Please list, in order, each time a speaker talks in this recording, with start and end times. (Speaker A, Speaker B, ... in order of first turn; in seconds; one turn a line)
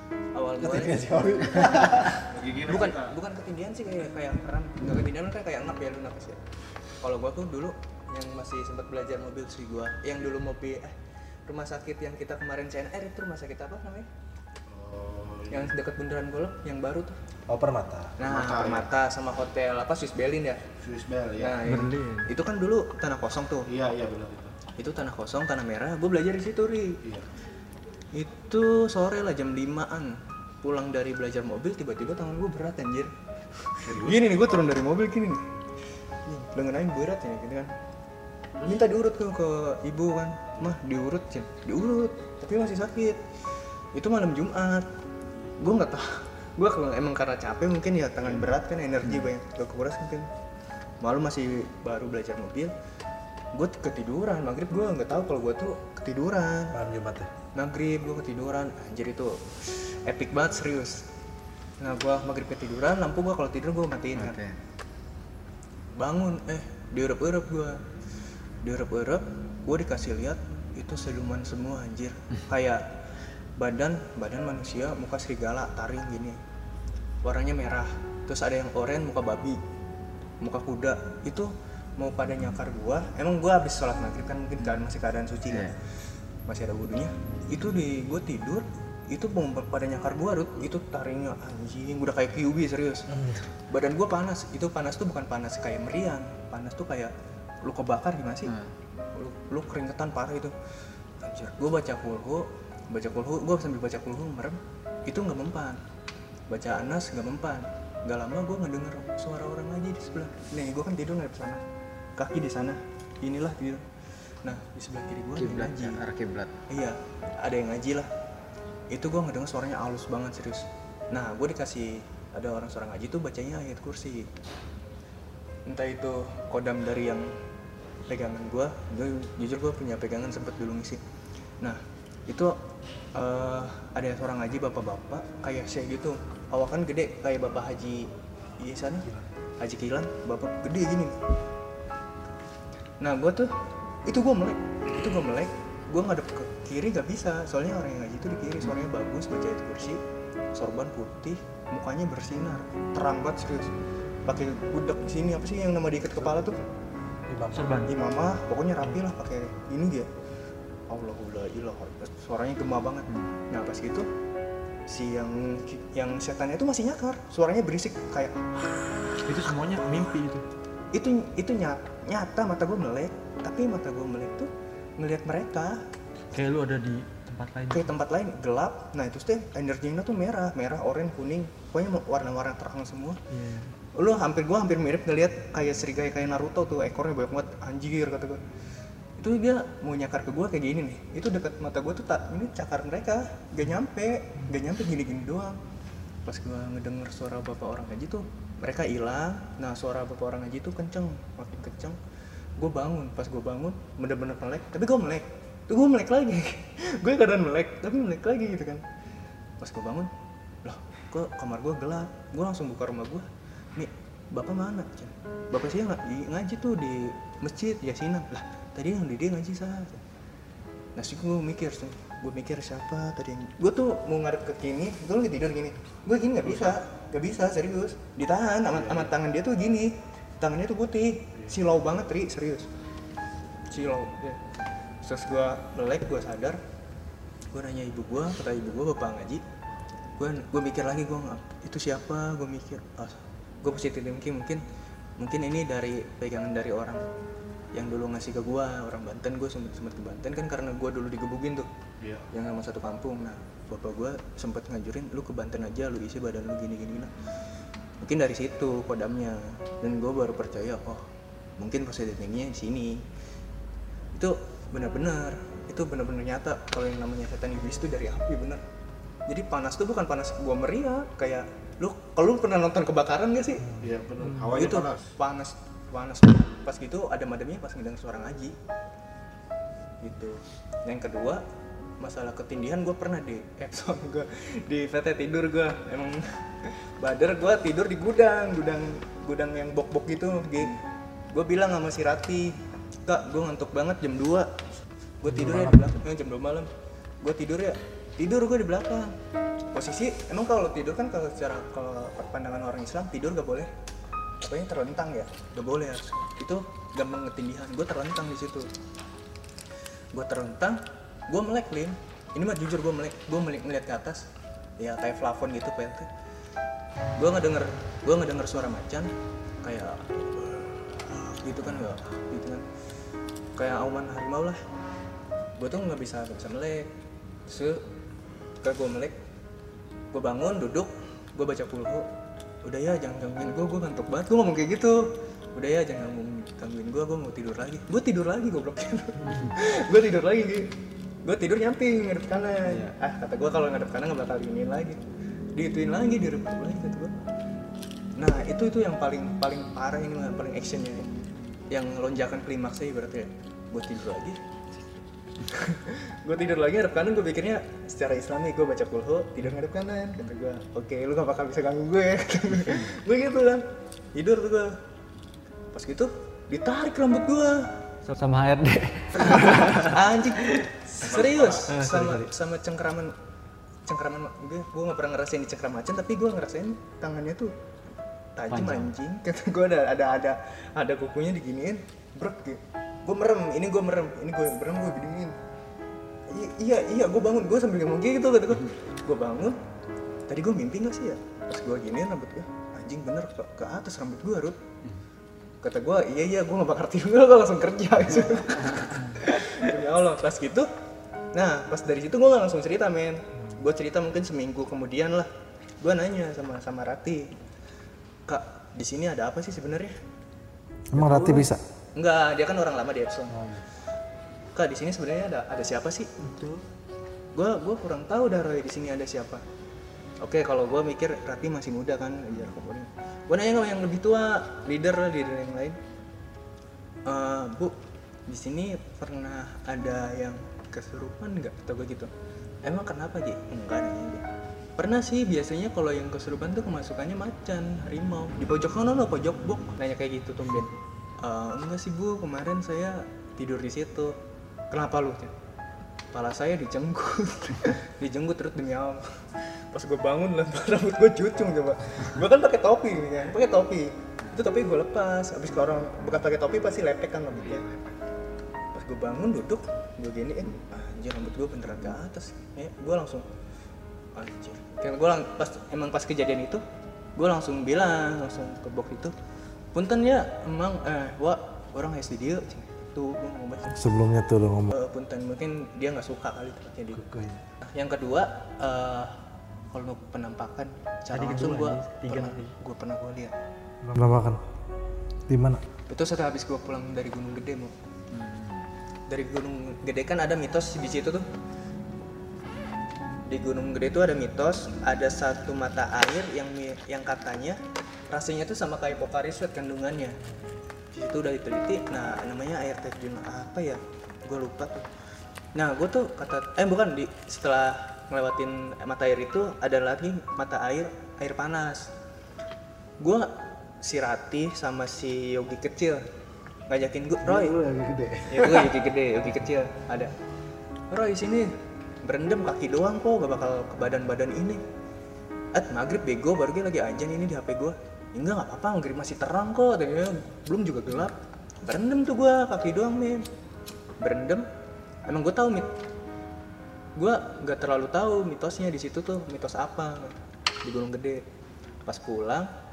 Speaker A: 0.3-6.4
Speaker B: 0.6-2.0
Speaker C: 1.6-1.9
Speaker D: 2.2-3.1
Speaker A: 7.0-10.9
Speaker A: 11.5-14.1
Speaker D: 14.7-15.7
Speaker A: 15.5-17.1
Speaker B: 17.5-18.2
Speaker A: 18.2-20.6
Speaker D: 18.2-18.9
Speaker D: 20.8-21.6
Speaker A: 21.4-23.7
Speaker E: 21.6-22.3
Speaker D: 23.7-24.5
Speaker A: 24.8-27.0
Speaker A: 28.1-35.4
Speaker D: 33.9-34.3
Speaker A: 36.3-37.7
Speaker A: 38.6-43.2
Speaker A: 43.9-44.9
Speaker A: 45.6-50.3
Speaker A: 51.0-52.7
Speaker A: 53.5-56.8
Speaker B: 56.7-57.3
Speaker A: 57.5-61.0
Speaker A: 61.8-64.4
Speaker C: 64.2-64.5
Speaker A: 66.0-67.8
Speaker A: 68.6-72.8
Speaker A: 73.6-76.4
Speaker A: 77.2-79.6
Speaker A: 80.4-85.8
Speaker C: 85.5-85.7
Speaker A: 86.5-93.1
Speaker B: 93.1-93.4
Speaker A: 93.7-98.5
Speaker A: 99.1-100.5
Speaker A: 101.2-105.8
Speaker A: 106.5-111.6
Speaker A: 112.2-113.8
Speaker A: 114.4-116.0
Speaker C: 115.4-116.5
Speaker A: 116.7-118.1
Speaker A: 118.9-124.3
Speaker A: 125.7-127.3
Speaker A: 128.1-131.0
Speaker A: 131.6-132.6
Speaker A: 133.1-139.1
Speaker A: 139.6-141.2
Speaker A: 143.0-143.5
Speaker A: 144.1-150.0
Speaker A: 150.5-153.7
Speaker A: 154.3-156.6
Speaker B: 157.3-157.7
Speaker E: 157.5-157.9
Speaker A: 157.9-160.1
Speaker A: 160.9-164.1
Speaker A: 164.9-168.4
Speaker E: 169.2-170.4
Speaker A: 170.9-175.8
Speaker E: 176.3-177.9
Speaker A: 177.7-183.2
Speaker E: 183.3-183.7
Speaker A: 183.9-188.4
Speaker A: 189.2-195.6
Speaker A: 196.3-202.0
Speaker A: 202.6-208.8
Speaker A: 209.6-210.1
Speaker A: 210.6-220.0
Speaker A: 220.9-232.7
Speaker D: 228.7-229.1
Speaker A: 233.7-234.4
Speaker A: 235.0-236.6
Speaker A: 237.5-239.4
Speaker A: 240.2-244.6
Speaker A: 245.2-247.0
Speaker A: 247.7-251.7
Speaker A: 252.3-257.1
Speaker A: 258.0-261.0
Speaker A: 261.6-263.0
Speaker A: 264.1-268.6
Speaker A: 269.3-273.7
Speaker D: 273.8-275.1
Speaker E: 274.2-274.6
Speaker A: 274.5-278.6
Speaker A: 280.0-281.4
Speaker A: 282.0-290.8
Speaker A: 291.3-294.5
Speaker A: 295.2-296.7
Speaker B: 295.3-295.9
Speaker A: 297.2-299.1
Speaker A: 299.7-303.7
Speaker A: 304.4-308.7
Speaker A: 310.1-314.3
Speaker A: 314.8-316.1
Speaker A: 317.2-319.1
Speaker A: 319.6-322.7
Speaker A: 323.6-324.6
Speaker A: 325.6-326.9
Speaker A: 327.5-327.8
Speaker A: 328.6-329.1
Speaker A: 330.1-332.1
Speaker A: 332.6-340.7
Speaker A: 341.2-345.0
Speaker C: 342.6-342.9
Speaker A: 345.6-347.1
Speaker A: 348.2-351.1
Speaker A: 351.7-354.4
Speaker A: 355.4-364.8
Speaker A: 365.7-367.7
Speaker E: 368.1-370.0
Speaker A: 369.5-373.1
Speaker D: 371.0-371.7
Speaker E: 371.7-372.3
Speaker A: 373.9-377.5
Speaker A: 378.4-385.4
Speaker C: 378.5-378.9
Speaker A: 386.3-389.6
Speaker A: 390.3-394.6
Speaker A: 395.6-400.7
Speaker C: 398.7-399.2
Speaker A: 401.3-405.3
Speaker A: 405.8-407.3
Speaker A: 408.3-409.9
Speaker B: 410.9-411.6
Speaker A: 411.9-413.4
Speaker A: 414.6-416.1
Speaker E: 416.2-416.6
Speaker A: 417.3-419.4
Speaker A: 420.2-425.8
Speaker A: 427.1-427.8
Speaker A: 428.3-432.1
Speaker A: 432.6-434.2
Speaker A: 434.8-444.2
Speaker A: 444.7-445.3
Speaker A: 446.1-457.6
Speaker D: 457.4-457.9
Speaker A: 458.7-463.2
Speaker A: 464.1-466.6
Speaker A: 467.2-469.1
Speaker A: 469.7-473.8
Speaker B: 473.7-474.7
Speaker A: 474.7-477.0
Speaker B: 476.9-477.4
Speaker A: 477.6-479.2
Speaker A: 479.7-483.3
Speaker E: 481.1-482.5
Speaker B: 483.8-484.4
Speaker B: 485.3-485.6
Speaker A: 485.9-487.7
Speaker C: 488.1-488.7
Speaker A: 489.1-491.2
Speaker A: 493.3-500.2
Speaker A: 500.9-504.9
Speaker A: 505.6-511.9
Speaker A: 513.0-516.0
Speaker A: 516.7-517.6
Speaker B: 517.2-518.7
Speaker A: 518.3-520.1
Speaker A: 520.9-521.5
Speaker A: 522.0-524.6
Speaker A: 525.5-533.2
Speaker A: 534.0-534.5
Speaker A: 535.0-535.7
Speaker A: 537.0-541.2
Speaker A: 541.8-542.5